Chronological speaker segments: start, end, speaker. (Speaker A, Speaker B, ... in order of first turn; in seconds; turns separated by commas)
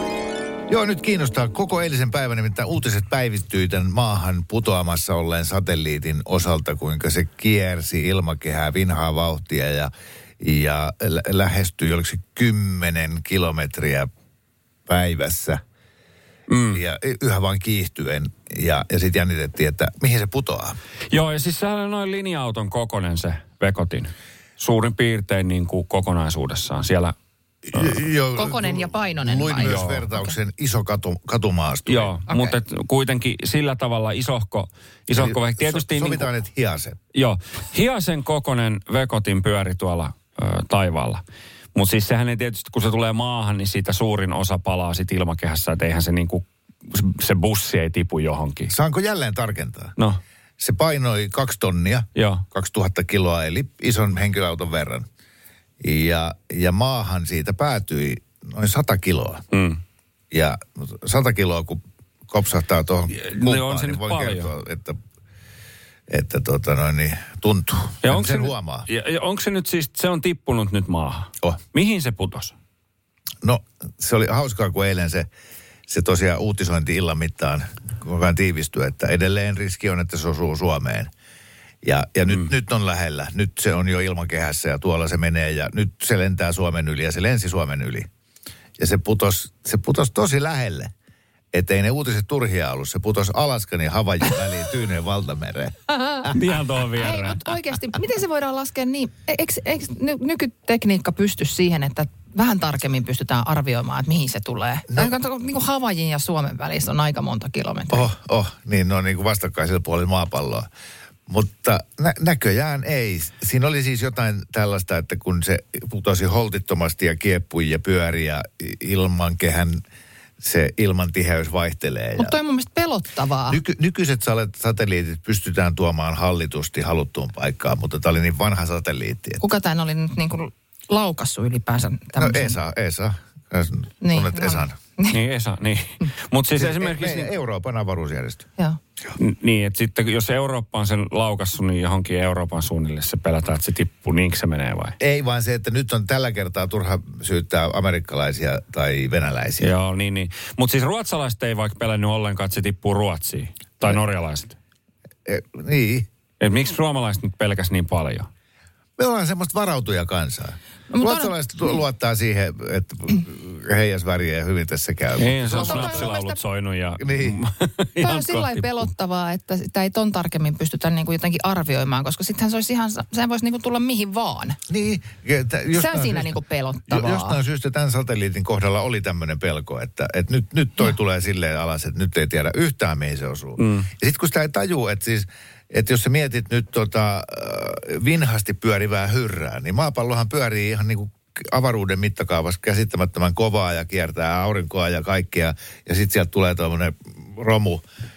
Speaker A: 0.7-14.1, Speaker A: 14.9-15.6, Speaker B: 16.5-16.8, Speaker A: 16.7-20.8, Speaker B: 21.1-27.1, Speaker A: 27.6-32.2, Speaker B: 27.7-28.0, Speaker C: 28.3-30.3, Speaker B: 29.6-30.1, Speaker B: 31.9-36.3, Speaker C: 32.3-32.5, Speaker A: 35.1-37.0, Speaker B: 37.1-41.2, Speaker B: 41.7-48.7, Speaker A: 48.7-49.9, Speaker A: 50.6-55.1, Speaker B: 52.1-52.4, Speaker A: 55.8-59.4, Speaker B: 59.5-59.8, Speaker A: 60.3-65.0, Speaker B: 63.1-64.5, Speaker A: 66.1-68.9, Speaker B: 68.0-72.5, Speaker A: 73.4-75.3, Speaker A: 75.9-81.1, Speaker A: 81.8-88.1, Speaker A: 88.8-90.9, Speaker A: 91.5-96.3, Speaker C: 96.0-96.3, Speaker B: 96.3-97.4, Speaker C: 97.0-108.1, Speaker A: 107.9-110.7, Speaker A: 111.3-119.8, Speaker A: 120.4-122.3, Speaker C: 122.2-123.6, Speaker A: 123.5-129.4, Speaker C: 129.4-132.6, Speaker A: 132.2-134.8, Speaker C: 134.0-135.2, Speaker B: 135.1-137.3, Speaker A: 136.6-138.5, Speaker B: 139.2-145.0, Speaker A: 145.0-149.7, Speaker B: 149.6-154.6, Speaker A: 155.2-156.1, Speaker B: 156.4-158.3, Speaker A: 159.0-166.1, Speaker C: 160.9-161.8, Speaker B: 165.2-168.9, Speaker C: 165.5-166.4, Speaker A: 167.0-167.4, Speaker C: 168.0-174.6, Speaker A: 174.7-197.8, Speaker C: 175.7-177.4, Speaker B: 183.6-183.9